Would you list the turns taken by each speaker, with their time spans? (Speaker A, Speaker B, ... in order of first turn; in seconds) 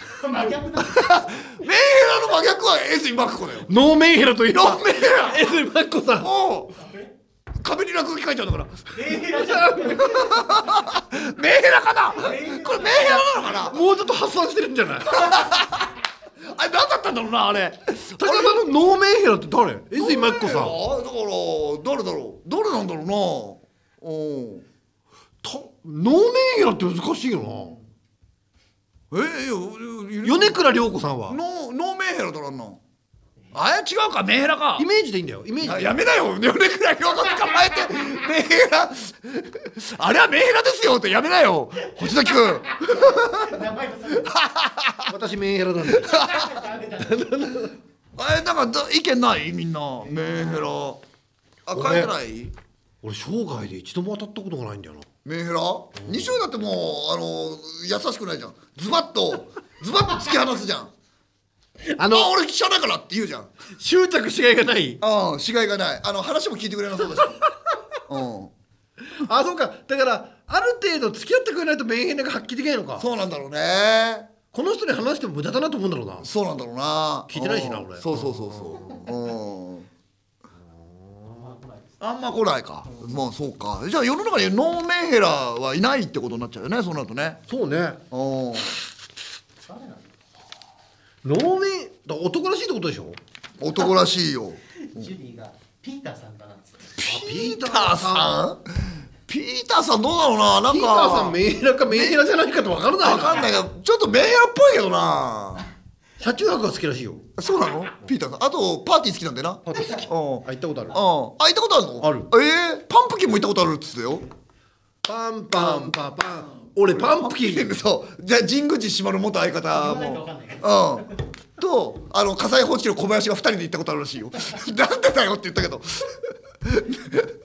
Speaker A: 0.1-1.2, 6.8-7.1, 8.9-10.6, 12.2-13.3, 42.0-44.3, 46.1-47.2, 81.3-82.0, 89.7-90.1, 94.9-97.0, 119.7-121.0
Speaker B: 0.8-3.7, 4.5-5.5, 6.2-6.7, 7.6-9.2, 10.0-13.8, 15.1-15.9, 16.4-18.6, 19.9-24.6, 29.1-30.6, 31.3-32.8, 33.5-34.9, 35.6-43.6, 44.2-45.1, 45.9-46.6, 48.2-51.0, 51.6-52.5, 55.2-60.9, 62.0-63.5, 65.0-67.4, 68.0-68.5, 73.0-74.3, 76.2-79.9, 82.0-87.4, 88.1-88.8, 93.6-95.1, 97.0-98.6, 99.3-101.4, 101.9-102.2, 103.0-105.7, 107.4-114.2, 115.5-116.0, 116.9-127.3
Speaker C: 3.7-6.3, 9.3-10.4, 13.6-15.4, 18.2-20.8, 25.4-27.8, 30.2-31.4, 34.8-35.9, 45.1-46.2, 46.9-47.7, 51.7-52.1, 53.0-55.1, 56.0-56.4, 62.0-62.3, 63.7-65.0, 69.1-73.1, 74.5-76.3, 77.3-79.0, 80.9-81.5, 87.5-88.0, 91.2-93.2, 97.0-98.4, 100.6-103.5, 106.2-107.2, 109.7-111.0, 112.0-112.3, 115.0-117.7